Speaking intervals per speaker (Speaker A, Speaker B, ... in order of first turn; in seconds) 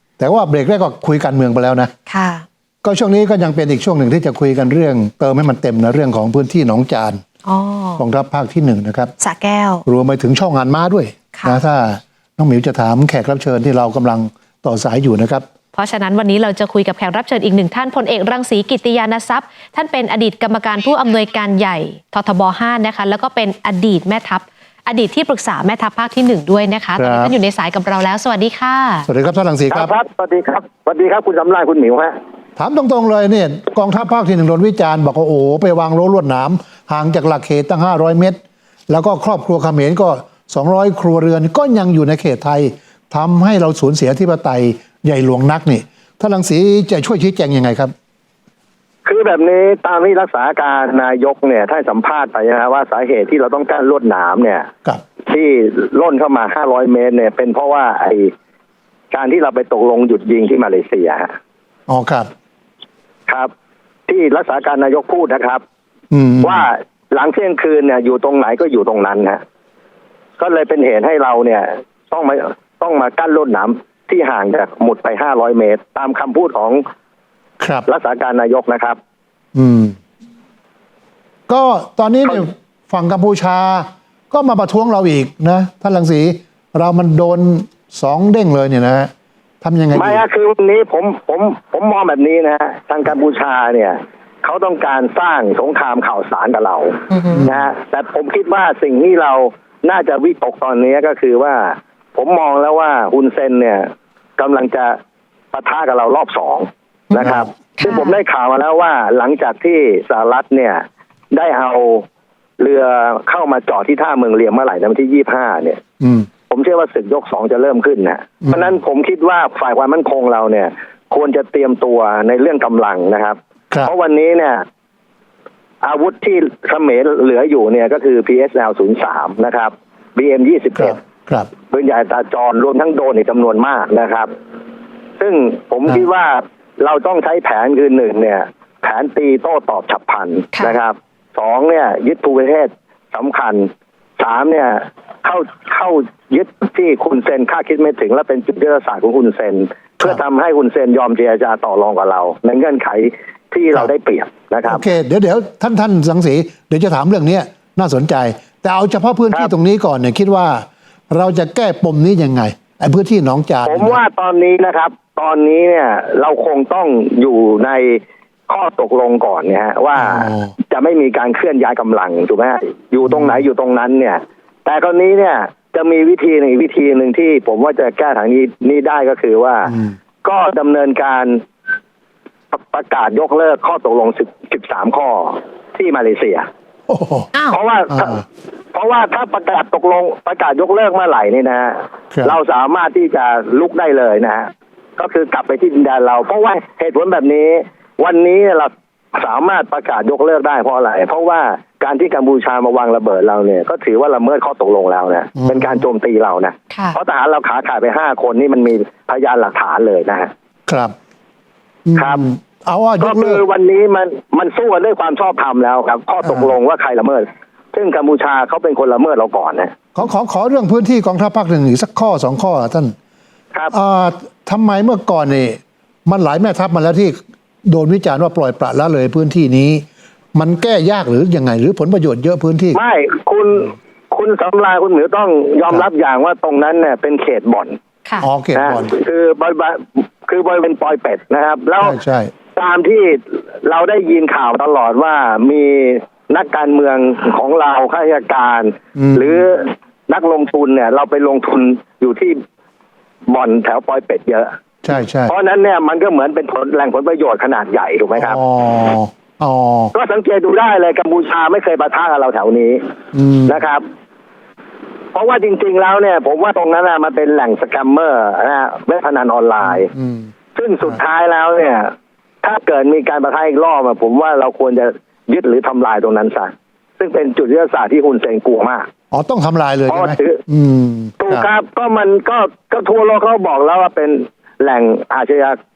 Speaker A: 0.2-1.9, 2.8-7.2, 8.0-9.1, 9.9-15.4, 27.0-27.3, 29.1-29.9, 32.6-38.4, 38.9-47.9, 61.9-62.3, 66.1-66.7, 77.6-77.9, 79.5-80.0, 81.5-89.1, 89.6-90.2, 97.3-97.7, 107.2-107.5, 116.0-116.3, 130.8-131.5, 154.7-164.0, 170.0-170.5, 173.1-173.4, 179.7-180.0, 186.9-187.3, 187.9-188.2, 205.4-205.8, 210.7-210.9, 211.9-213.4, 216.2-216.5, 219.9-222.9, 223.7-229.8, 230.3-232.8, 238.2-238.9, 241.8-242.3, 249.0-249.4, 254.8-255.3, 258.2-259.9, 263.1-263.6, 269.6-270.3, 279.1-281.5
Speaker B: 2.1-2.5, 7.5-8.0, 9.2-9.8, 15.8-29.1, 97.1-97.5, 107.1-108.2, 206.7-207.0
Speaker C: 29.7-32.1, 49.0-54.7, 55.3-58.3, 59.1-61.3, 64.1-65.6, 66.4-69.4, 70.4-76.8, 77.9-79.0, 89.9-105.0, 105.5-112.0, 112.6-115.8, 116.5-124.6, 125.8-131.0, 131.7-134.3, 135.2-154.8, 163.7-181.4, 182.5-186.5, 187.5-188.2, 188.7-210.3, 212.0-212.3, 213.0-219.7, 232.7-237.8, 238.6-242.0, 242.6-252.4, 253.3-254.5, 255.3-258.4, 259.9-262.8, 263.5-263.9, 265.1-269.9, 270.6-271.9, 272.4-278.9, 279.9-280.4, 281.2-285.6